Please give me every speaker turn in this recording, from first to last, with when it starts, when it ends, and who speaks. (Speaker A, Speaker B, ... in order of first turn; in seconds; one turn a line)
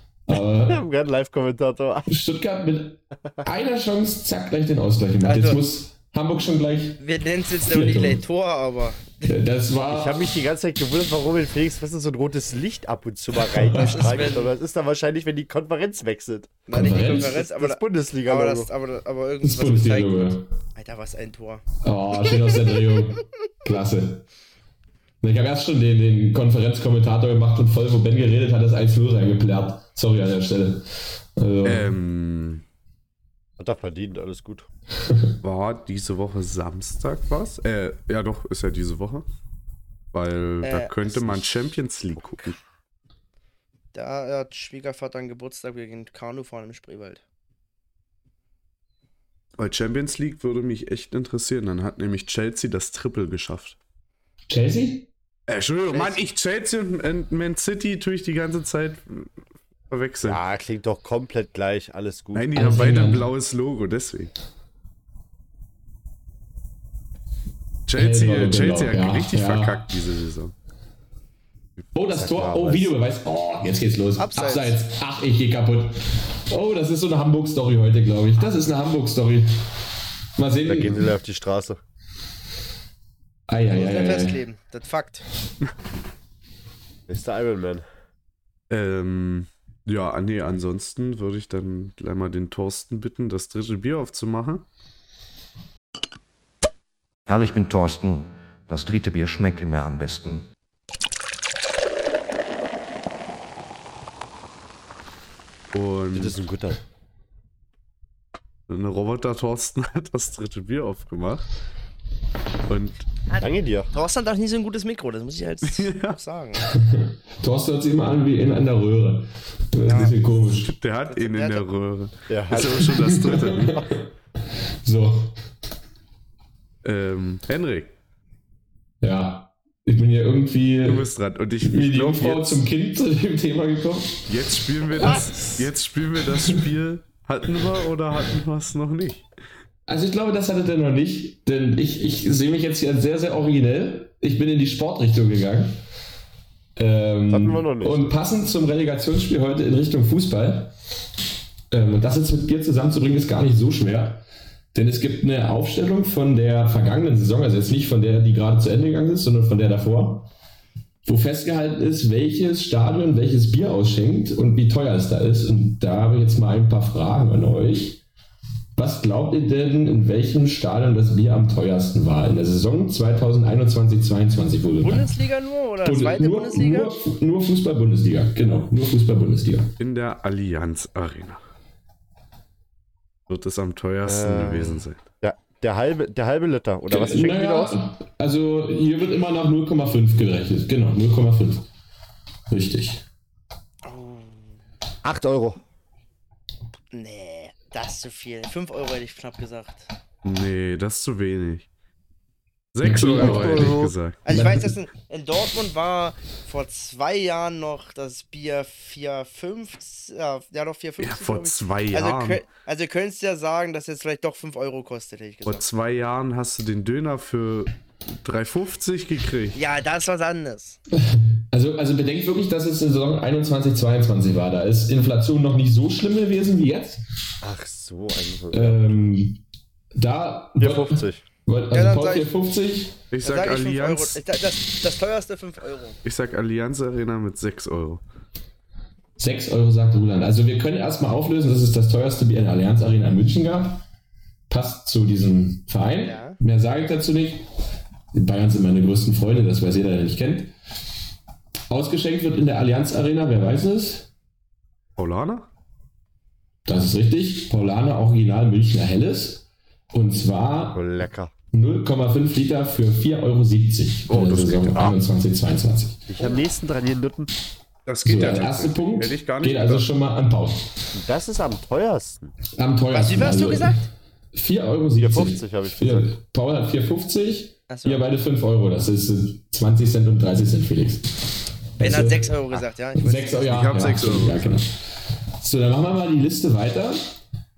Speaker A: 0.3-0.8
Speaker B: 0.7-2.1
Speaker A: 2.1-7.0
Speaker C: 5.2-5.6
Speaker C: 7.0-9.3
Speaker A: 7.7-8.2
Speaker A: 9.3-10.3
Speaker B: 9.9-18.7
Speaker A: 13.5-14.1
Speaker C: 13.8-14.5
Speaker C: 16.7-21.6
Speaker A: 16.7-17.4
Speaker A: 19.4-20.5
Speaker A: 21.8-24.3
Speaker C: 22.3-22.8
Speaker A: 25.2-31.9
Speaker D: 31.6-32.6
Speaker B: 33.6-34.7
Speaker D: 35.4-39.3
Speaker D: 40.1-42.6
Speaker C: 40.6-41.4
Speaker C: 43.9-47.2
Speaker D: 49.6-53.8
Speaker A: 54.5-55.1
Speaker D: 55.5-59.3
Speaker C: 55.9-56.2
Speaker D: 59.9-60.4
Speaker B: 60.2-62.6
Speaker D: 62.3-64.3
Speaker A: 62.5-63.3
Speaker D: 67.9-70.5
Speaker A: 68.0-69.9
Speaker A: 71.9-79.7
Speaker B: 72.1-72.9
Speaker C: 74.2-74.8
Speaker A: 80.4-81.1
Speaker B: 80.7-81.8
Speaker A: 83.5-84.4
Speaker C: 83.7-85.2
Speaker B: 87.1-87.8
Speaker D: 88.7-94.7
Speaker E: 97.3-100.5
Speaker D: 105.7-106.4
Speaker B: 106.1-106.8
Speaker D: 108.7-111.5
Speaker D: 112.7-113.0
Speaker C: 113.3-116.6
Speaker B: 113.4-113.9
Speaker D: 115.6-116.2
Speaker A: 116.7-120.7
Speaker C: 119.9-120.2
Speaker D: 120.4-123.8
Speaker C: 121.1-121.7
Speaker B: 122.3-122.8
Speaker A: 122.8-124.0
Speaker A: 124.8-125.3
Speaker D: 126.8-127.9
Speaker A: 129.0-131.1
Speaker D: 130.8-132.6
Speaker A: 131.6-134.3
Speaker D: 134.3-139.3
Speaker A: 135.0-135.6
Speaker A: 139.9-145.8
Speaker A: 146.8-150.7
Speaker B: 147.3-148.1
Speaker A: 151.7-160.3
Speaker A: 161.1-168.0
Speaker A: 168.8-175.1
Speaker C: 174.8-176.9
Speaker A: 175.8-179.7
Speaker D: 179.8-181.4
Speaker D: 183.3-185.0
Speaker B: 184.0-187.8
Speaker A: 186.9-191.7
Speaker A: 192.5-193.1
Speaker C: 193.8-194.6
Speaker B: 195.0-195.6
Speaker C: 196.9-199.9
Speaker D: 200.2-201.7
Speaker D: 202.7-204.2
Speaker A: 202.8-204.7
Speaker B: 203.1-203.9
Speaker C: 204.2-215.6
Speaker D: 211.0-212.4
Speaker D: 215.4-219.6
Speaker C: 219.6-220.8
Speaker A: 221.0-227.0
Speaker B: 227.4-229.1
Speaker A: 228.5-229.4
Speaker A: 229.9-233.0
Speaker B: 230.6-231.2
Speaker C: 231.7-232.3
Speaker D: 233.1-234.2
Speaker C: 233.2-236.0
Speaker D: 236.1-238.0
Speaker A: 239.2-243.8
Speaker A: 244.5-247.5
Speaker C: 246.0-246.4
Speaker A: 248.1-250.5
Speaker A: 251.7-254.1
Speaker D: 254.9-255.5
Speaker A: 256.6-260.8
Speaker B: 260.7-261.3
Speaker A: 261.5-266.1
Speaker D: 264.1-265.0
Speaker B: 266.1-267.3
Speaker D: 267.9-269.9
Speaker A: 268.1-270.7
Speaker B: 270.9-272.3
Speaker A: 272.6-273.7
Speaker C: 272.9-273.9
Speaker A: 274.3-281.1
Speaker B: 275.0-276.1
Speaker C: 277.7-278.1
Speaker A: 281.8-282.4
Speaker C: 281.8-283.6
Speaker A: 283.0-284.8
Speaker D: 283.4-284.6
Speaker A: 285.4-287.1